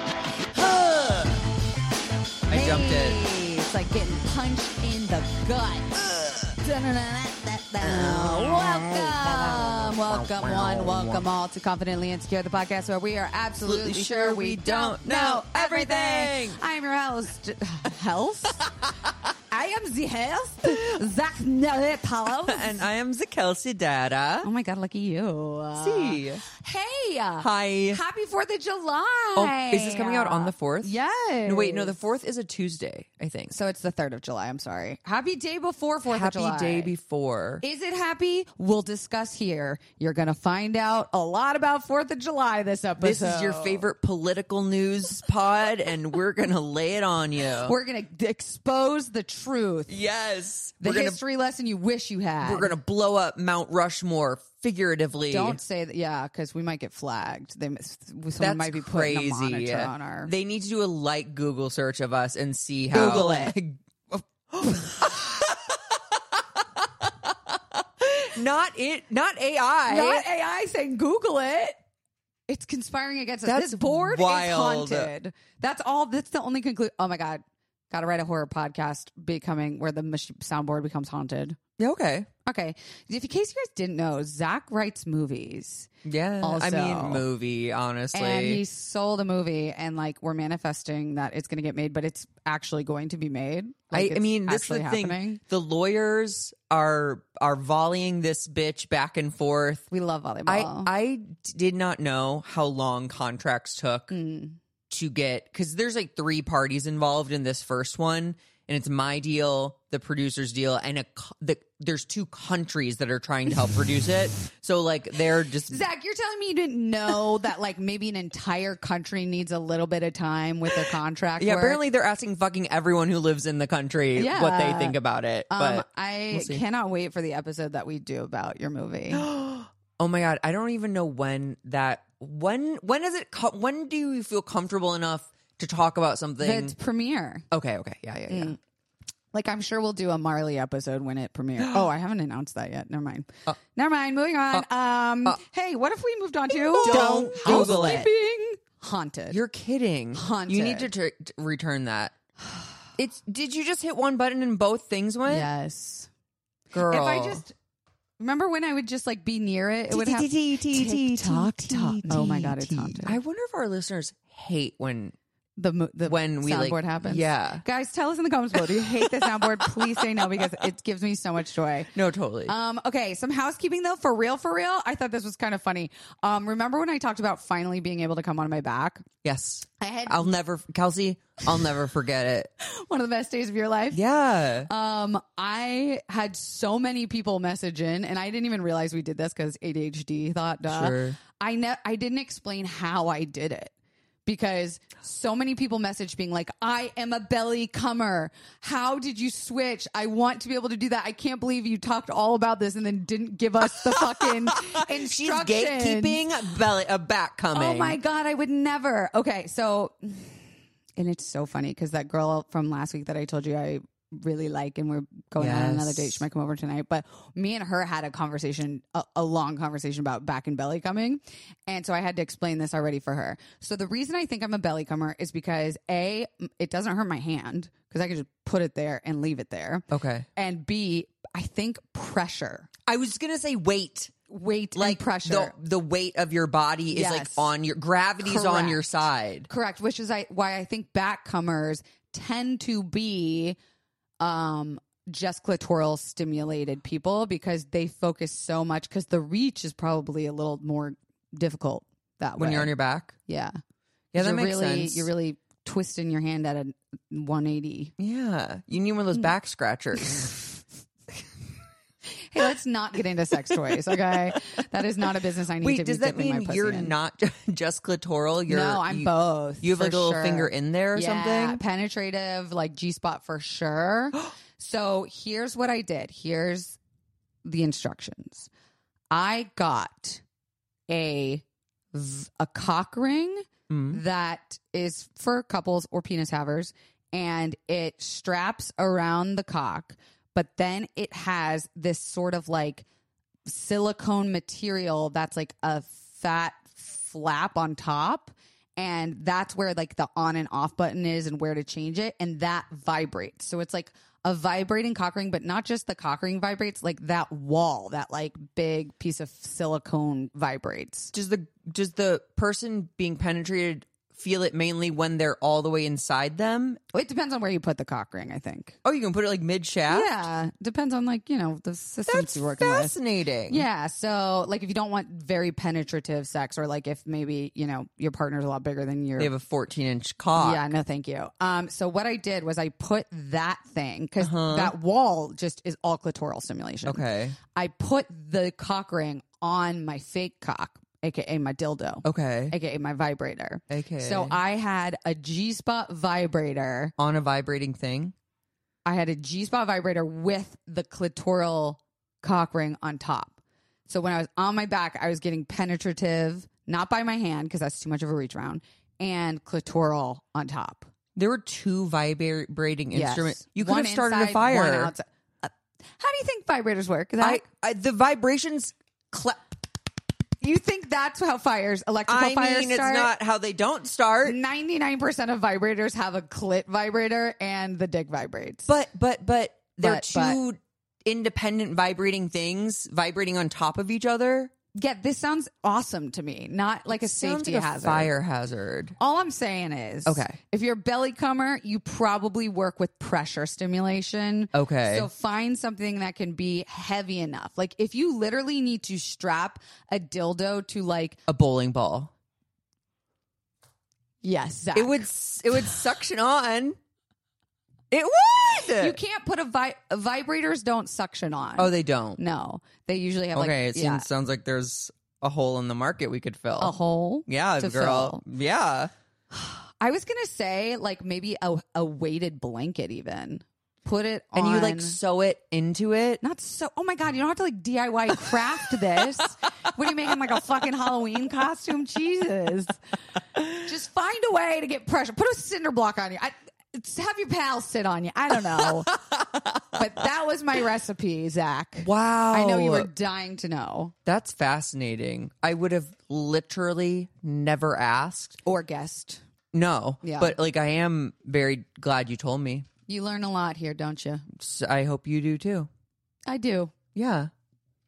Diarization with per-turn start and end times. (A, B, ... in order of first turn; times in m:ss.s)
0:00.5-0:01.4 A
0:02.5-0:03.2 A
0:02.5-0:18.7 B
0:13.6-0:16.6 A
0:18.7-0:19.1 A
0:19.5-0:22.9 B
0:20.7-0:21.0 A
0:22.4-0:24.5 A
0:24.4-0:31.9 B
0:25.8-0:26.4 A
0:27.4-0:28.0 A
0:29.4-0:30.9 A
0:31.4-0:33.5 A
0:33.5-0:36.9 B
0:36.0-0:37.6 A
0:37.6-0:43.9 B
0:43.0-0:47.7 A
0:47.6-0:50.0 B
0:49.9-0:51.2 A
0:50.8-0:52.8 B
0:52.4-0:55.6 A
0:55.3-1:00.3 B
0:58.4-1:10.2 A
1:02.9-1:03.5 B
1:09.9-1:11.7 B
1:12.5-1:21.6 B
1:13.4-1:15.1 A
1:21.8-1:22.3 A
1:22.4-1:25.9 B
1:26.0-1:28.6 A
1:26.4-1:27.2 B
1:28.1-1:35.4 B
1:33.9-1:39.8 A
1:39.9-1:40.9 B
1:40.5-1:44.2 A
1:44.1-1:44.6 B
1:44.9-1:55.8 A
1:55.7-2:01.8 B
2:01.4-2:06.6 A
2:04.1-2:05.0 B
2:05.5-2:09.2 B
2:09.1-2:16.7 A
2:16.4-2:17.5 B
2:17.5-2:18.6 A
2:18.3-2:18.6 B
2:19.3-2:29.4 B
2:26.7-2:28.1 A
2:29.3-2:32.1 A
2:30.1-2:30.9 B
2:33.0-2:35.5 A
2:35.2-2:36.1 B
2:36.7-2:37.4 A
2:36.7-2:37.5 B
2:38.2-2:43.2 B
2:39.9-2:45.1 A
2:45.6-2:51.9 B
2:46.1-2:47.6 A
2:48.5-2:50.5 A
2:51.9-2:52.5 A
2:52.4-2:59.0 B
2:59.2-3:02.5 A
2:59.8-3:00.3 B
3:02.6-3:04.0 B
3:03.9-3:04.7 A
3:04.6-3:13.7 B
3:10.7-3:11.2 A
3:14.2-3:26.2 B
3:23.8-3:28.0 A
3:27.5-3:30.4 B
3:31.0-3:49.8 B
3:35.4-3:36.2 A
3:49.9-3:50.2 A
3:50.4-3:52.7 B
3:52.9-3:54.1 A
3:54.3-3:55.5 B
3:54.7-3:59.5 A
3:56.9-3:57.5 B
3:58.2-3:58.9 B
3:59.5-4:03.6 B
4:04.2-4:12.7 B
4:12.4-4:13.2 A
4:13.2-4:13.5 B
4:14.1-4:15.1 A
4:14.1-4:17.9 B
4:18.0-4:20.4 A
4:22.1-4:26.9 B
4:23.5-4:24.5 A
4:25.6-4:29.1 A
4:28.5-4:36.8 B
4:29.6-4:31.6 A
4:37.4-4:38.5 B
4:39.1-4:40.2 B
4:40.9-4:52.8 B
4:43.7-4:44.0 A
4:53.4-5:11.1 B
5:11.1-5:16.8 A
5:16.9-5:18.8 B
5:18.8-5:20.1 A
5:19.9-5:23.0 B
5:22.1-5:23.6 A
5:23.5-5:29.3 B
5:29.2-5:30.6 A
5:30.4-5:46.9 B
5:34.2-5:34.7 A
5:36.8-5:37.4 A
5:42.0-5:42.5 A
5:43.7-5:44.4 A
5:47.0-5:48.1 A
5:48.8-5:53.4 B
5:53.9-6:00.9 B
6:01.2-6:04.9 A
6:02.9-6:07.4 B
6:07.2-6:09.6 A
6:10.4-6:13.1 B
6:12.1-6:14.4 A
6:14.2-6:18.7 B
6:18.6-6:24.5 A
6:19.8-6:20.4 B
6:24.8-6:28.1 B
6:26.9-6:29.0 A
6:29.0-6:41.2 B
6:30.0-6:30.4 A
6:34.5-6:35.1 A
6:41.3-6:42.1 A
6:44.2-6:45.1 B
6:44.7-6:46.8 A
6:47.9-6:49.0 A
6:48.8-6:54.1 B
6:51.6-6:52.2 A
6:53.3-6:56.7 A
6:56.6-6:58.2 B
6:57.3-6:58.9 A
6:59.3-7:05.0 B
7:04.3-7:06.2 A
7:06.2-7:12.8 B
7:08.3-7:09.0 A
7:13.5-7:18.9 B
7:18.6-7:19.6 A
7:19.7-7:23.9 B
7:21.8-7:22.9 A
7:24.0-7:28.4 A
7:28.4-7:29.2 B
7:29.5-7:32.7 A
7:30.0-7:30.3 B
7:32.9-7:34.3 B
7:34.3-7:35.7 A
7:36.3-7:36.7 B
7:36.9-7:37.3 A